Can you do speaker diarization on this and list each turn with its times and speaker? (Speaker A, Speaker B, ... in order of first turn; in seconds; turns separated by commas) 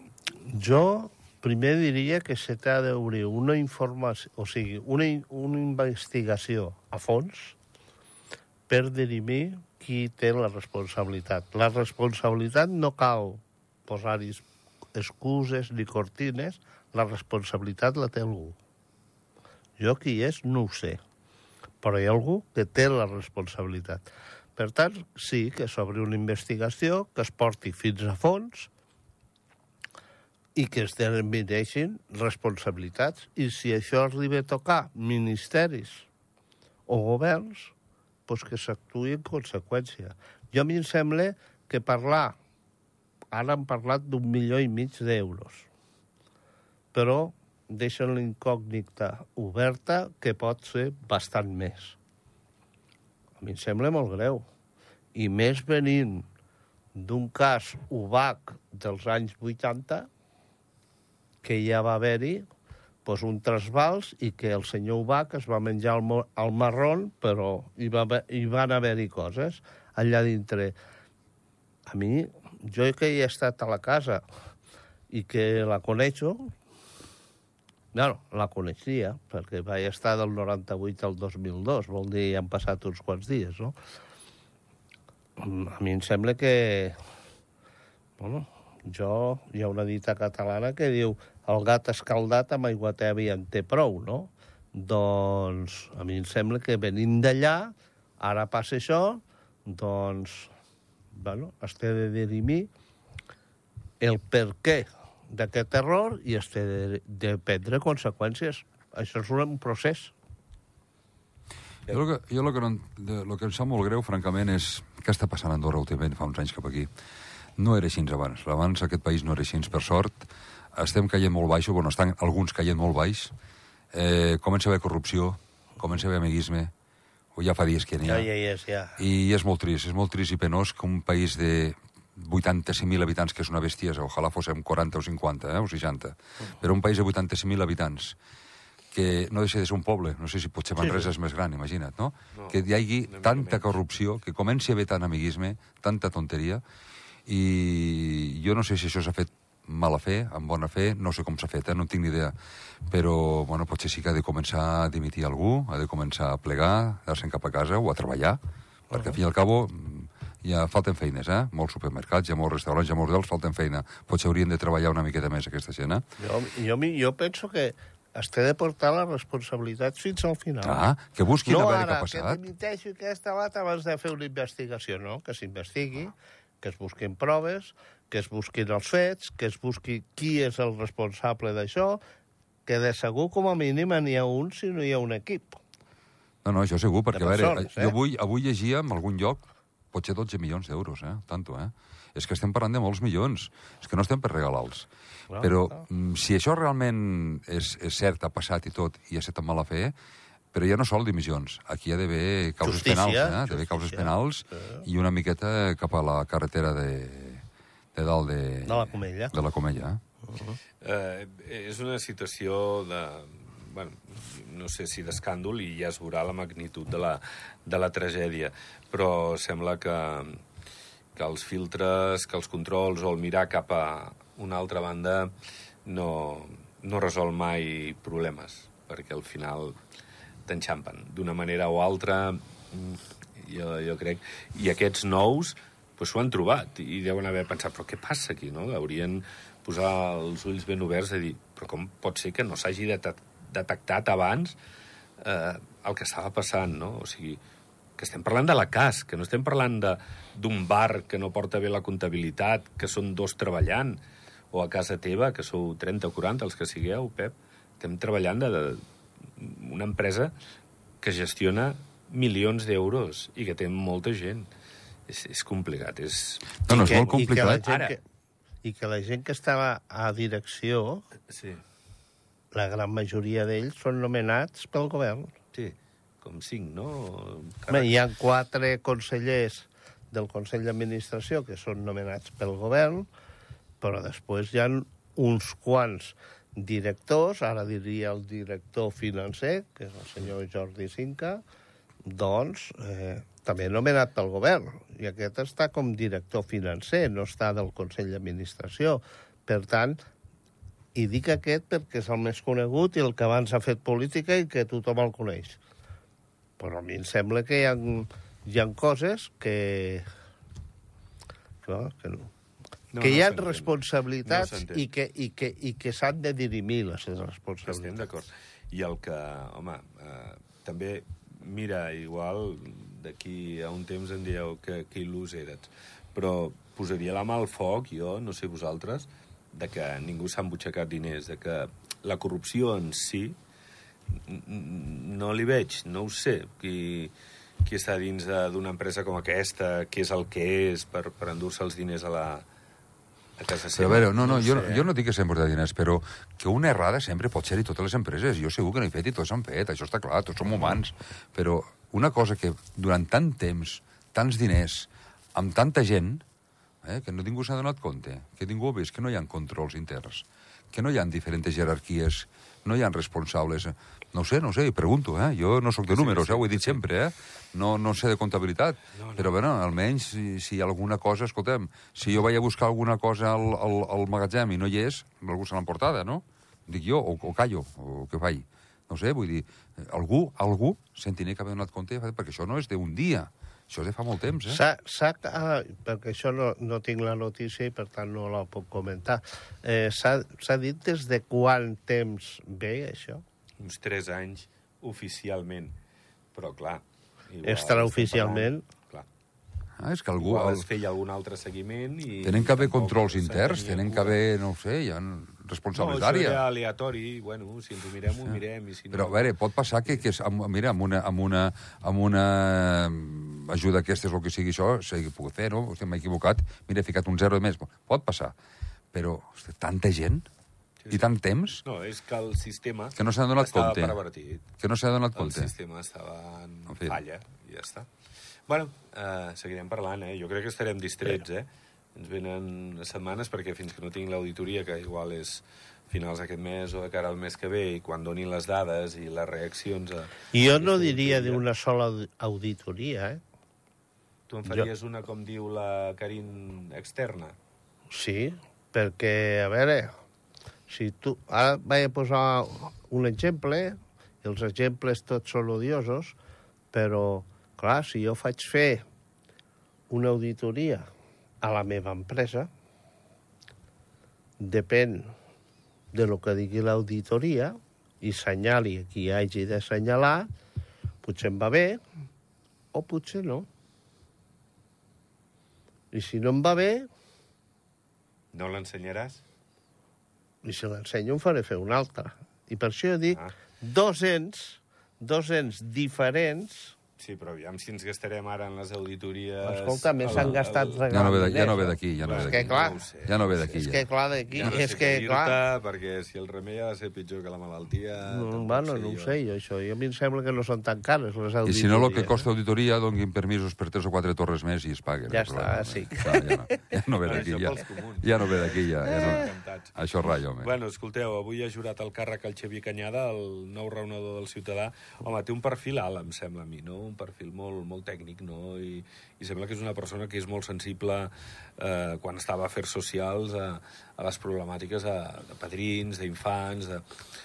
Speaker A: 0.5-7.6, Speaker A: 8.7-18.6, Speaker A: 19.8-21.0, Speaker A: 21.8-28.7, Speaker A: 30.6-36.1, Speaker A: 36.9-37.7, Speaker A: 38.3-42.4, Speaker A: 43.3-45.7, Speaker A: 46.9-52.0, Speaker A: 53.4-54.5, Speaker A: 55.1-56.3, Speaker A: 57.0-60.1, Speaker A: 61.4-62.5, Speaker A: 63.0-70.8, Speaker A: 71.9-74.2, Speaker A: 75.1-76.5, Speaker A: 77.9-83.8, Speaker A: 85.4-87.0, Speaker A: 88.2-100.5, Speaker A: 101.1-102.7, Speaker A: 104.0-110.1, Speaker B: 111.9-116.9, Speaker B: 117.6-123.3, Speaker B: 123.9-126.7, Speaker B: 127.3-128.3, Speaker A: 128.1-129.0, Speaker B: 129.0-138.2, Speaker B: 138.9-146.6, Speaker C: 142.3-143.8, Speaker B: 147.3-152.3, Speaker B: 152.9-158.4, Speaker A: 158.9-159.2, Speaker B: 158.9-166.0, Speaker A: 166.2-170.8, Speaker B: 170.6-172.4, Speaker A: 171.5-182.0, Speaker A: 182.7-185.6, Speaker B: 186.4-194.9, Speaker A: 187.1-187.9, Speaker A: 195.3-195.8, Speaker B: 195.4-199.9, Speaker B: 200.5-210.0, Speaker A: 202.6-204.8, Speaker A: 208.7-209.4, Speaker A: 210.3-210.6, Speaker C: 210.8-220.4, Speaker C: 221.2-225.3, Speaker C: 225.8-229.8, Speaker C: 230.5-244.6, Speaker C: 245.2-247.4, Speaker C: 248.0-254.0, Speaker C: 254.5-258.8, Speaker C: 259.4-260.3, Speaker C: 261.0-264.5, Speaker C: 265.1-268.0, Speaker B: 266.6-267.6, Speaker A: 266.7-268.0, Speaker A: 268.6-271.1, Speaker C: 271.3-271.6, Speaker A: 272.5-275.3, Speaker C: 275.5-277.9, Speaker A: 277.7-283.1, Speaker A: 283.8-291.4, Speaker A: 292.1-300.0, Speaker A: 300.9-305.6, Speaker A: 306.6-310.1, Speaker A: 311.7-312.3, Speaker C: 312.9-313.7, Speaker A: 313.0-318.1, Speaker C: 314.2-314.9, Speaker C: 317.6-333.4, Speaker C: 334.1-337.1, Speaker C: 337.6-342.5, Speaker C: 343.4-344.9, Speaker B: 343.7-356.2, Speaker B: 356.8-384.6, Speaker C: 365.9-366.8, Speaker C: 369.0-369.3, Speaker A: 384.5-393.2, Speaker C: 393.6-395.8, Speaker C: 396.3-399.1, Speaker A: 397.4-398.7, Speaker B: 399.8-400.7, Speaker C: 400.2-404.2, Speaker B: 402.2-406.4, Speaker C: 405.8-409.3, Speaker B: 408.9-418.3, Speaker B: 418.9-420.3, Speaker B: 420.9-421.6, Speaker C: 421.6-424.5, Speaker B: 423.0-424.0, Speaker B: 424.6-425.5, Speaker C: 425.1-427.9, Speaker B: 426.7-427.0, Speaker C: 428.5-441.4, Speaker A: 440.3-443.2, Speaker C: 444.3-447.4, Speaker A: 447.9-449.9, Speaker A: 450.7-456.2, Speaker A: 456.7-458.9, Speaker A: 459.9-460.9, Speaker A: 461.4-462.5, Speaker A: 464.4-465.1, Speaker A: 465.9-470.3, Speaker A: 471.0-471.8, Speaker A: 472.7-473.5, Speaker A: 475.9-476.9, Speaker C: 478.3-479.2, Speaker A: 480.4-486.8, Speaker C: 487.0-490.8, Speaker A: 489.4-492.8, Speaker B: 490.9-493.8, Speaker C: 492.0-493.6, Speaker A: 493.5-495.4, Speaker C: 494.3-499.2, Speaker A: 498.1-502.3, Speaker B: 501.4-510.5, Speaker A: 505.1-506.8, Speaker C: 507.0-509.8, Speaker A: 508.9-509.2, Speaker C: 510.4-526.8